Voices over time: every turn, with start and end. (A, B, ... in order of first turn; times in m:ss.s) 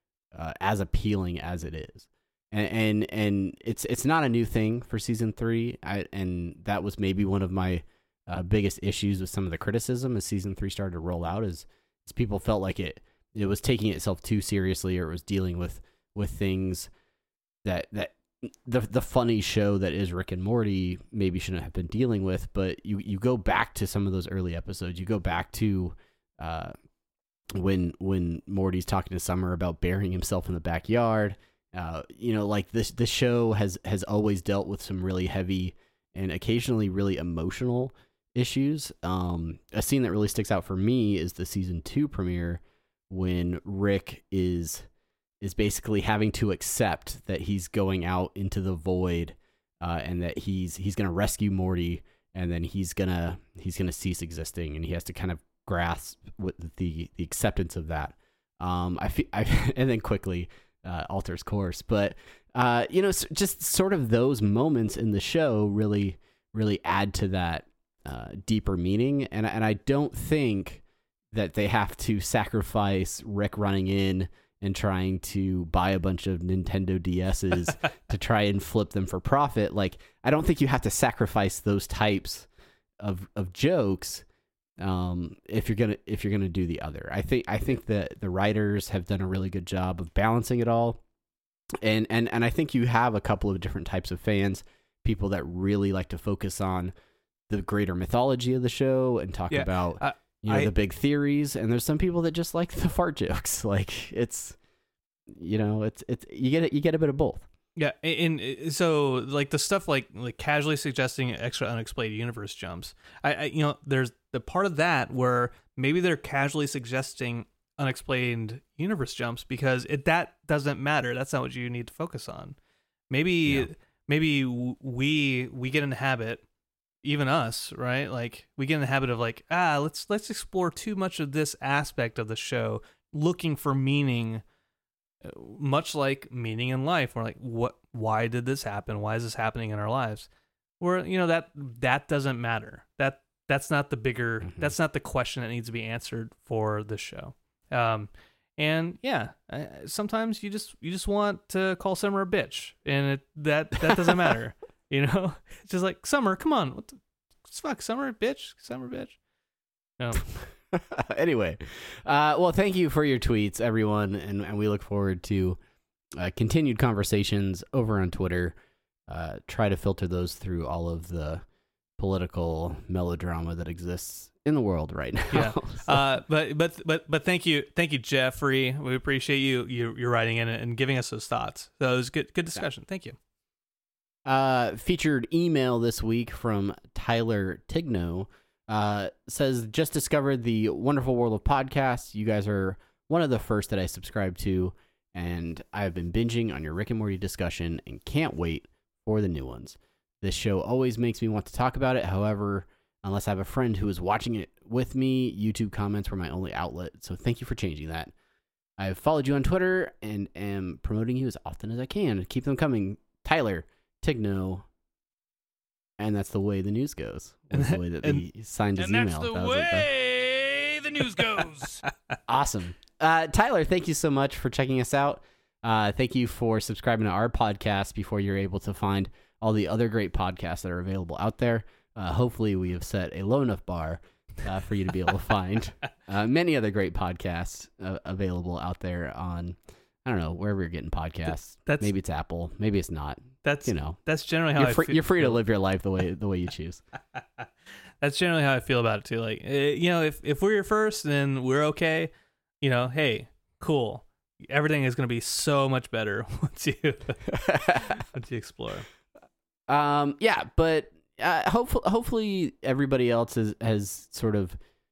0:00.3-0:16.9 A
0:17.6-0:26.7 A
0:27.6-0:44.9 A
0:45.4-1:22.5 A
1:23.0-1:24.2 A
1:24.8-1:31.0 A
1:31.8-1:36.9 A
1:37.5-1:44.6 A
1:39.5-1:40.7 B
1:45.3-1:47.5 A
1:47.8-2:02.6 B
2:03.1-2:06.4 B
2:07.0-2:14.4 B
2:15.2-2:20.3 B
2:20.8-2:39.2 B
2:24.4-2:24.7 A
2:40.0-2:40.3 B
2:40.7-2:45.6 A
2:46.2-2:51.4 A
2:52.0-2:56.0 A
2:55.3-3:03.2 B
3:04.2-3:28.1 A
3:28.8-3:34.7 A
3:36.0-3:39.9 A
3:37.5-3:38.2 B
3:38.8-3:41.8 C
3:42.3-4:04.0 A
4:01.7-4:01.9 B
4:03.4-4:05.4 B
4:04.6-4:06.8 A
4:08.0-4:18.9 B
4:17.3-4:18.0 A
4:19.7-4:24.6 A